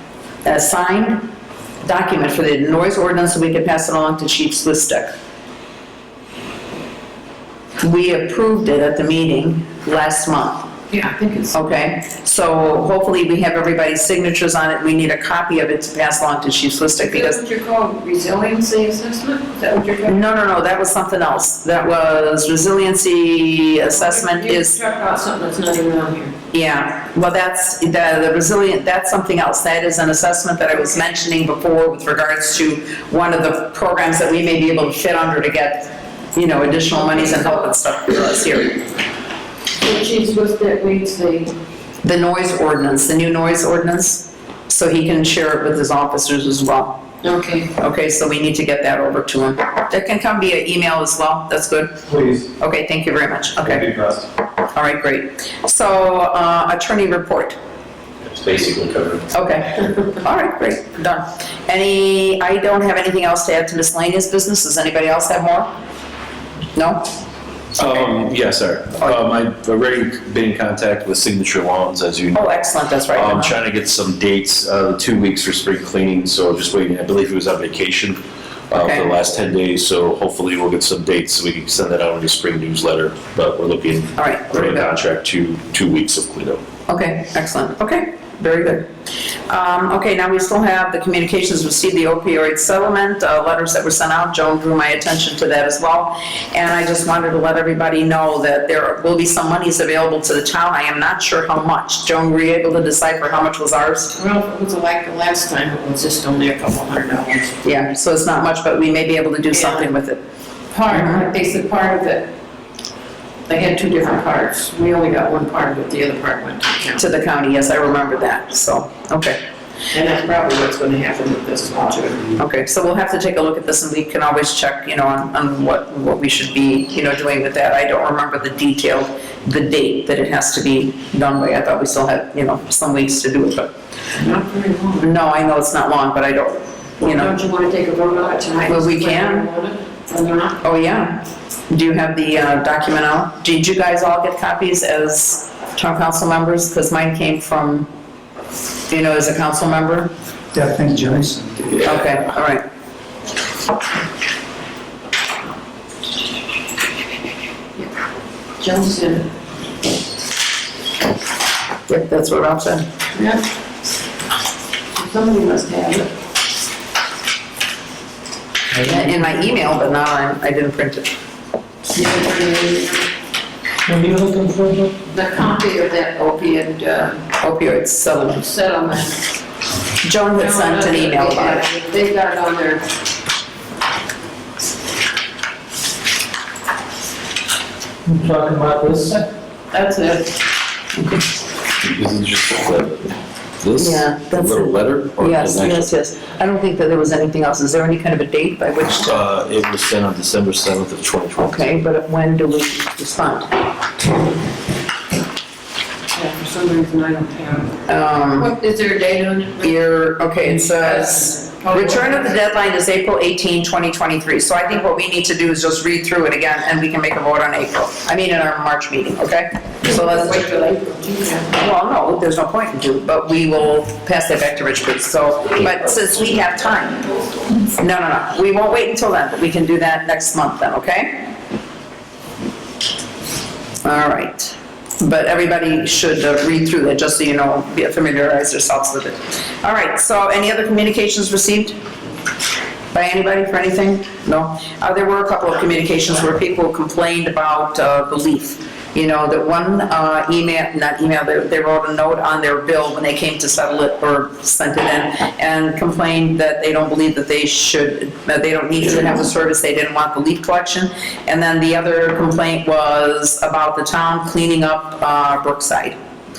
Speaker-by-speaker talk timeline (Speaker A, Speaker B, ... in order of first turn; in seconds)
Speaker A: 0.5-1.3, 1.8-5.1, 7.8-10.7, 11.5-17.4, 20.1-24.8, 26.5-38.8, 42.0-47.0, 47.8-53.9, 54.7-57.6, 59.3-65.7, 66.8-67.1, 72.3-73.6, 78.7-79.1, 84.2-84.9, 86.9-88.9, 89.5-104.2, 107.6-110.2, 110.9-111.2, 117.0-119.4, 122.4-133.7, 135.0-137.3, 138.7-139.5, 140.6-147.9, 148.9-150.1, 151.8-152.6, 161.9-162.9, 168.8-171.1, 177.4-178.5, 180.0-181.6, 193.8-199.2, 201.4-203.5, 207.9-208.5, 209.6-220.4, 221.5-227.1, 227.7-231.2, 233.8-241.8, 242.9-266.0
Speaker B: 10.9-11.7, 17.0-20.2, 23.9-26.4, 39.8-41.5, 47.2-47.7, 104.2-107.6, 109.5-109.9, 110.7-112.3, 113.5-117.0, 119.9-122.3, 134.2-135.1, 137.0-140.6, 158.6-159.3, 163.2-163.4, 164.9-166.1, 171.9-173.1, 175.1-177.3, 178.4-179.2, 180.4-182.8, 189.7-190.4, 206.1-209.8, 210.3-212.4, 219.9-221.7
Speaker C: 52.1-52.4, 53.7-54.2, 150.6-151.6, 173.9-174.9, 188.1-189.3
Speaker D: 58.3-59.3, 67.8-72.4, 73.1-78.2, 78.7-86.6, 191.8-193.1, 193.6-195.9, 199.0-201.8